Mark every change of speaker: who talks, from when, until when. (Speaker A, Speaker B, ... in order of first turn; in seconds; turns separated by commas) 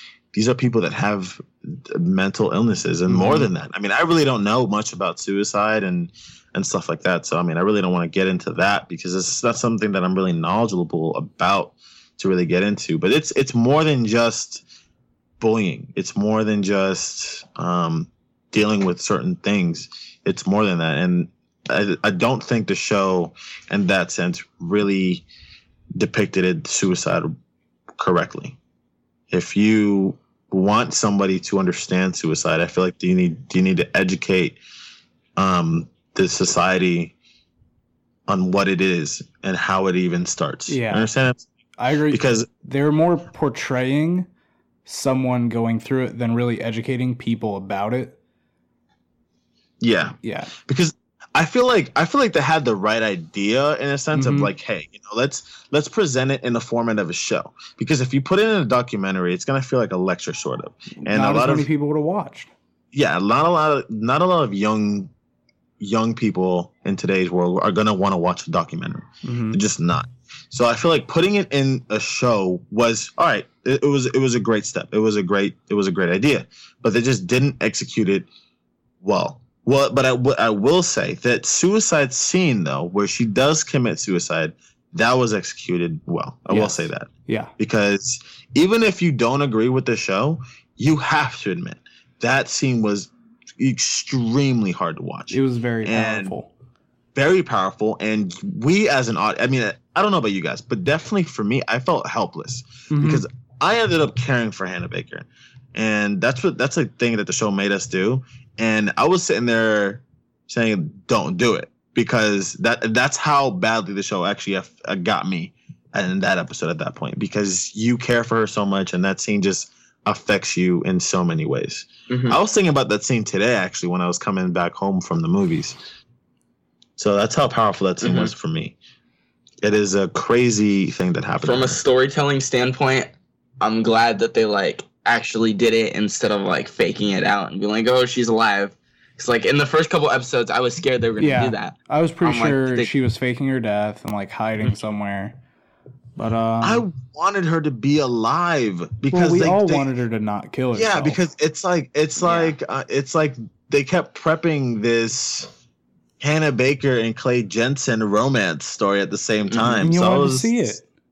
Speaker A: 0.3-14.6, Speaker B: 3.1-3.5, Speaker A: 15.4-25.2, Speaker A: 25.9-27.3, Speaker A: 28.0-28.6, Speaker A: 29.3-34.6, Speaker A: 35.4-37.1, Speaker A: 38.3-41.5, Speaker B: 40.7-41.1, Speaker B: 41.8-44.3, Speaker A: 42.1-42.5, Speaker B: 44.9-48.2, Speaker A: 49.8-61.7, Speaker B: 50.2-50.5, Speaker B: 54.1-54.5, Speaker B: 61.0-62.5, Speaker A: 62.9-65.1, Speaker A: 65.8-78.3, Speaker B: 69.2-69.6, Speaker A: 79.0-96.3, Speaker B: 86.5-87.5, Speaker B: 95.3-96.5, Speaker A: 97.1-125.8, Speaker B: 102.9-103.2, Speaker C: 122.1-122.4, Speaker A: 127.0-128.8, Speaker C: 128.0-128.3, Speaker A: 129.6-131.8, Speaker C: 131.4-142.9, Speaker B: 141.2-145.4, Speaker B: 146.2-146.8, Speaker A: 146.6-149.9, Speaker B: 149.1-151.2, Speaker A: 150.7-155.5, Speaker C: 152.2-152.5, Speaker A: 156.2-160.8, Speaker C: 159.5-159.8, Speaker B: 159.8-160.8